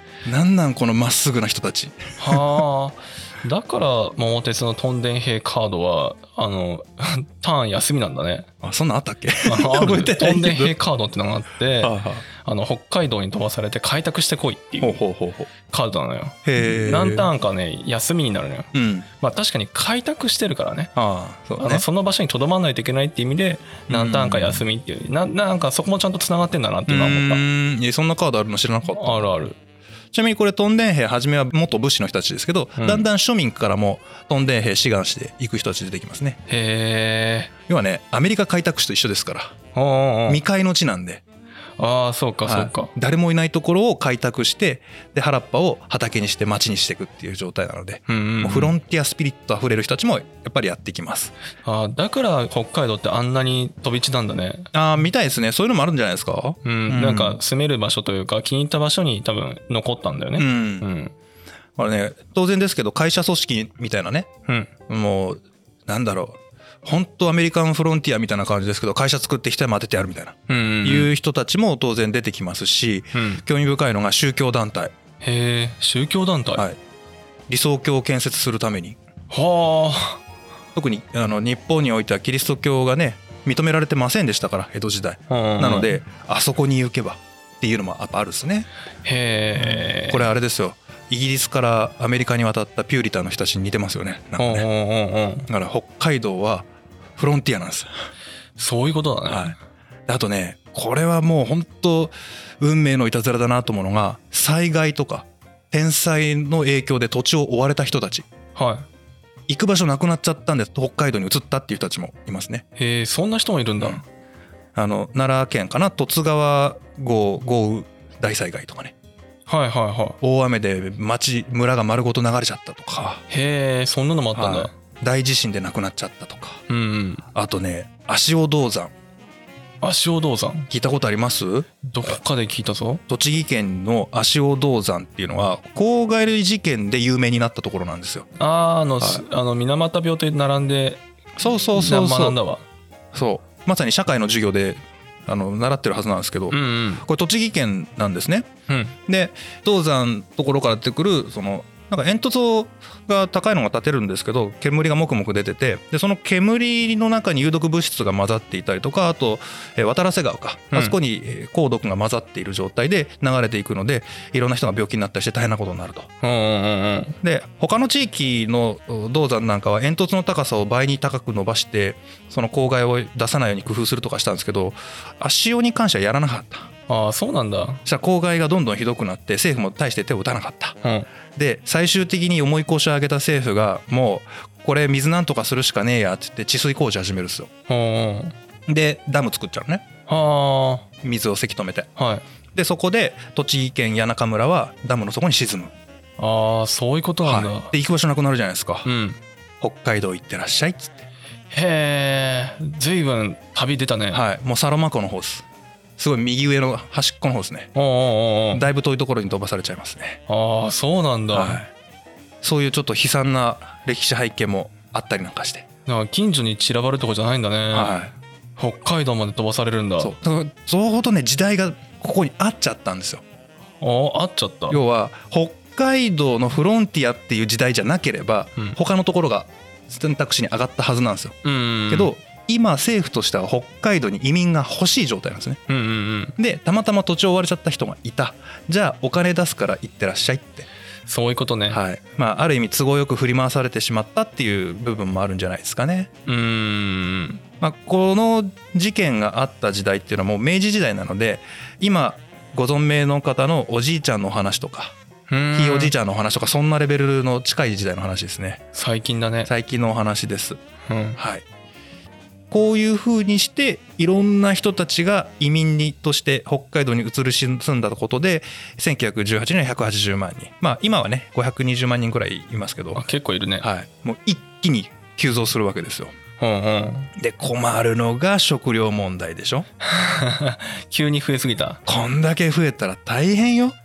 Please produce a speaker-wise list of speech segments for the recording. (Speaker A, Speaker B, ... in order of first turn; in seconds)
Speaker A: 0.2-2.4, 8.6-10.7, 11.8-12.2, 14.8-15.5, 16.4-17.3, 18.7-19.1, 20.9-21.8, 23.9-24.6, 26.9-29.3, 30.1-36.4, 37.7-39.5, 40.3-41.2, 42.4-51.3, 54.7-57.4, 60.4-60.9, 61.8-64.3, 64.9-74.9, 77.5-79.0, 80.7-88.7, 89.6-94.7, 95.5-97.9, 99.3-99.5, 100.1-108.2, 109.5-112.6, 114.7-118.9, 120.2-123.2, 124.3-126.6, 127.3-128.9, 130.7-132.2, 133.1-138.3, 141.4-142.4, 143.1-148.5, 149.1-166.1, 167.2-176.7, 177.8-180.8, 181.3-187.5, 188.7-189.8, 191.0-191.9, 192.5-195.7, 197.2-198.8, 199.6-201.0, 204.1-205.4, 206.0-207.7, 208.5-210.2, 211.3-211.7, 212.4-215.7, 217.7-218.1, 220.0-223.2, 224.7-231.3, 231.9-235.6, 236.4-240.7, 241.7-246.1, 247.6-254.9, 255.5-258.6, 259.5-260.6, 261.2-261.4, 262.5-273.0, 273.6-276.1, 277.2-279.7, 281.9-283.8
Speaker B: 2.2-8.5, 9.4-15.0, 15.7-20.9, 21.6-27.4, 28.9-29.6, 32.8-33.0, 36.5-37.5, 39.7-40.4, 41.8-42.9, 48.1-48.7, 51.6-54.7, 56.6-61.1, 70.5-71.1, 73.1-73.4, 75.2-76.7, 79.3-80.2, 85.3-85.9, 89.0-90.3, 94.4-95.5, 98.6-99.5, 108.5-108.9, 112.8-114.0, 119.5-120.2, 123.3-124.7, 126.7-127.2, 129.8-130.7, 131.8-133.0, 138.4-141.0, 141.7-142.6, 146.5-147.0, 148.7-148.9, 166.2-167.2, 176.9-177.8, 187.7-188.3, 190.1-190.9, 192.0-192.2, 196.2-197.7, 198.8-199.2, 201.5-204.2, 207.7-208.6, 210.3-211.6, 215.8-217.9, 218.6-220.1, 223.8-224.8, 231.4-232.1, 235.7-236.3, 241.1-241.8, 246.2-247.4, 255.3-255.9, 258.7-259.5, 260.9-261.2, 272.9-273.6, 276.4-277.1, 279.8-281.8